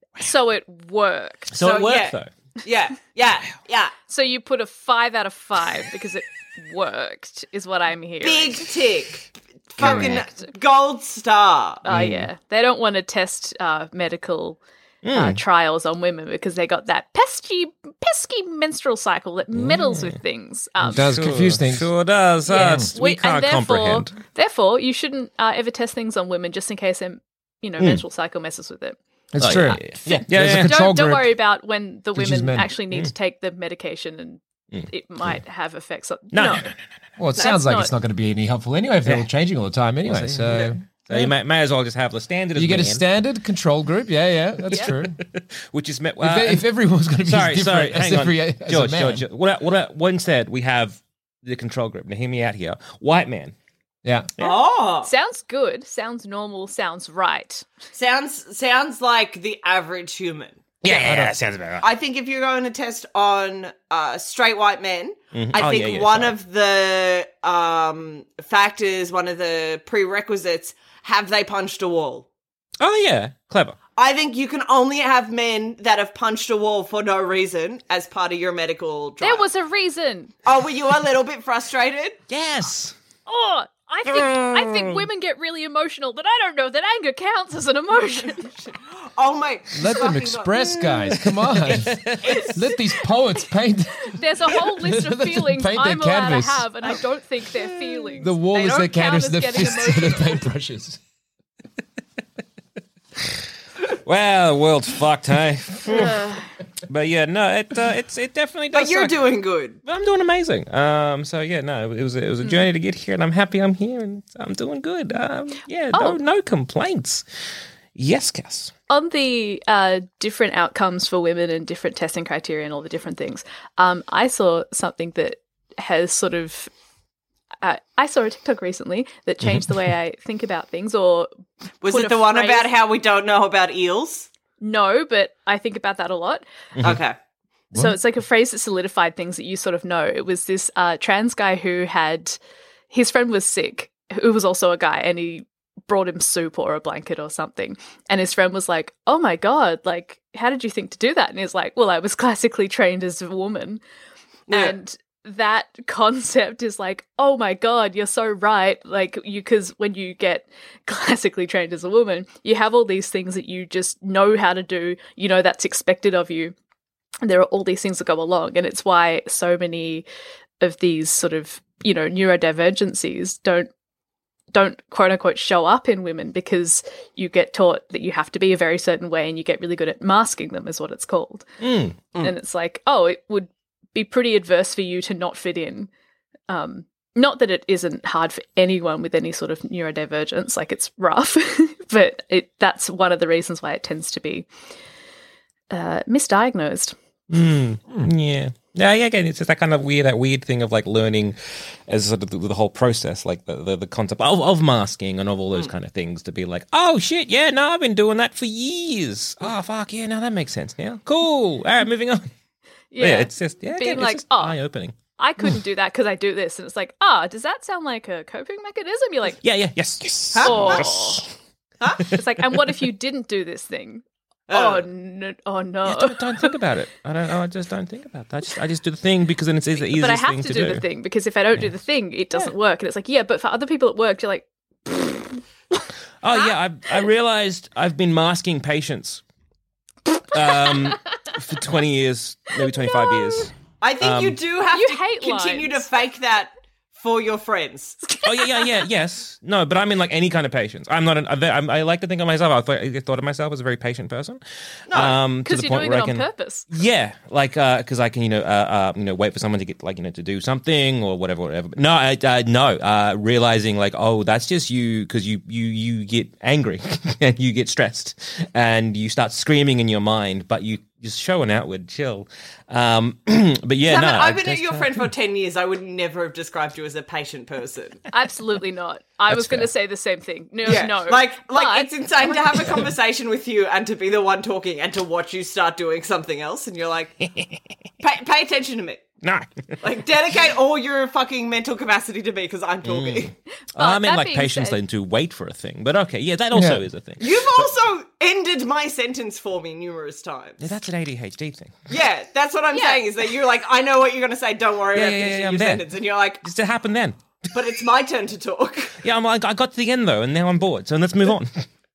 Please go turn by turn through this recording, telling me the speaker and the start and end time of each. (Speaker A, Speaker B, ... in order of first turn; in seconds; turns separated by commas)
Speaker A: 0.2-1.5, Speaker B: 1.5-2.3, Speaker C: 1.6-3.9, Speaker A: 4.1-8.7, Speaker C: 8.2-11.8, Speaker B: 9.8-10.2, Speaker A: 9.8-10.5, Speaker A: 11.8-14.6, Speaker B: 11.9-12.3, Speaker B: 15.0-15.4, Speaker A: 15.1-21.0, Speaker B: 19.6-20.2, Speaker B: 20.9-24.1, Speaker D: 20.9-21.9, Speaker A: 22.5-29.0, Speaker D: 22.5-22.9, Speaker D: 29.3-31.4, Speaker B: 29.4-30.8, Speaker A: 29.6-36.7, Speaker D: 32.1-32.8, Speaker B: 36.3-36.8, Speaker D: 37.2-41.3, Speaker A: 37.4-37.9, Speaker B: 40.0-43.0, Speaker D: 42.5-45.2, Speaker B: 44.8-46.6, Speaker D: 46.2-49.2, Speaker B: 47.2-53.5, Speaker D: 54.0-54.3, Speaker C: 54.4-55.1, Speaker A: 55.0-57.7, Speaker C: 57.9-61.2, Speaker B: 60.8-61.9, Speaker D: 60.9-61.3, Speaker C: 61.8-72.3, Speaker B: 65.3-66.3, Speaker B: 72.8-73.8, Speaker C: 74.0-79.5, Speaker A: 79.2-80.3, Speaker C: 80.5-82.2, Speaker B: 82.3-83.0, Speaker A: 83.3-88.5, Speaker B: 84.0-85.1, Speaker C: 88.7-90.6, Speaker D: 89.7-96.7, Speaker B: 90.8-92.2, Speaker C: 92.2-92.6, Speaker A: 94.0-100.4, Speaker D: 98.2-101.0, Speaker B: 104.0-106.3, Speaker A: 105.9-106.5, Speaker B: 106.9-109.2, Speaker C: 108.7-109.8, Speaker B: 109.8-117.2, Speaker A: 115.9-116.2, Speaker B: 118.0-118.7, Speaker A: 118.9-126.7, Speaker A: 127.6-131.3, Speaker C: 131.8-134.3, Speaker A: 131.9-132.7, Speaker A: 134.6-136.5, Speaker C: 136.8-137.2, Speaker A: 137.8-142.4, Speaker A: 142.9-153.8, Speaker C: 154.5-154.8, Speaker A: 154.5-166.6, Speaker A: 167.2-170.1, Speaker A: 170.6-173.7, Speaker A: 174.5-181.5, Speaker B: 181.6-182.0, Speaker A: 182.2-185.9, Speaker A: 186.5-194.5, Speaker A: 195.7-196.9, Speaker B: 197.3-212.3, Speaker A: 212.9-214.6, Speaker B: 213.0-214.9, Speaker A: 215.2-219.4, Speaker B: 219.4-221.3, Speaker C: 220.3-220.9, Speaker A: 220.4-221.2, Speaker A: 222.1-226.5, Speaker C: 224.5-224.9, Speaker B: 225.8-230.8, Speaker A: 229.8-235.4, Speaker B: 236.2-239.2, Speaker B: 240.3-244.4, Speaker A: 242.6-243.5, Speaker C: 243.8-248.1, Speaker A: 244.7-245.9, Speaker A: 248.2-248.7, Speaker B: 248.2-275.1, Speaker C: 254.9-255.2, Speaker A: 255.4-256.7, Speaker C: 273.9-278.0, Speaker A: 278.1-282.6, Speaker B: 279.3-279.7, Speaker C: 280.6-287.2, Speaker C: 288.0-289.1, Speaker B: 289.2-289.8, Speaker C: 289.8-293.3, Speaker B: 292.8-297.7, Speaker A: 293.6-294.8, Speaker D: 296.5-296.8, Speaker C: 297.2-300.7, Speaker B: 300.6-301.8, Speaker C: 301.9-306.4, Speaker A: 302.7-303.0, Speaker B: 304.9-305.9, Speaker B: 306.4-307.4, Speaker C: 307.5-309.0, Speaker B: 309.0-311.7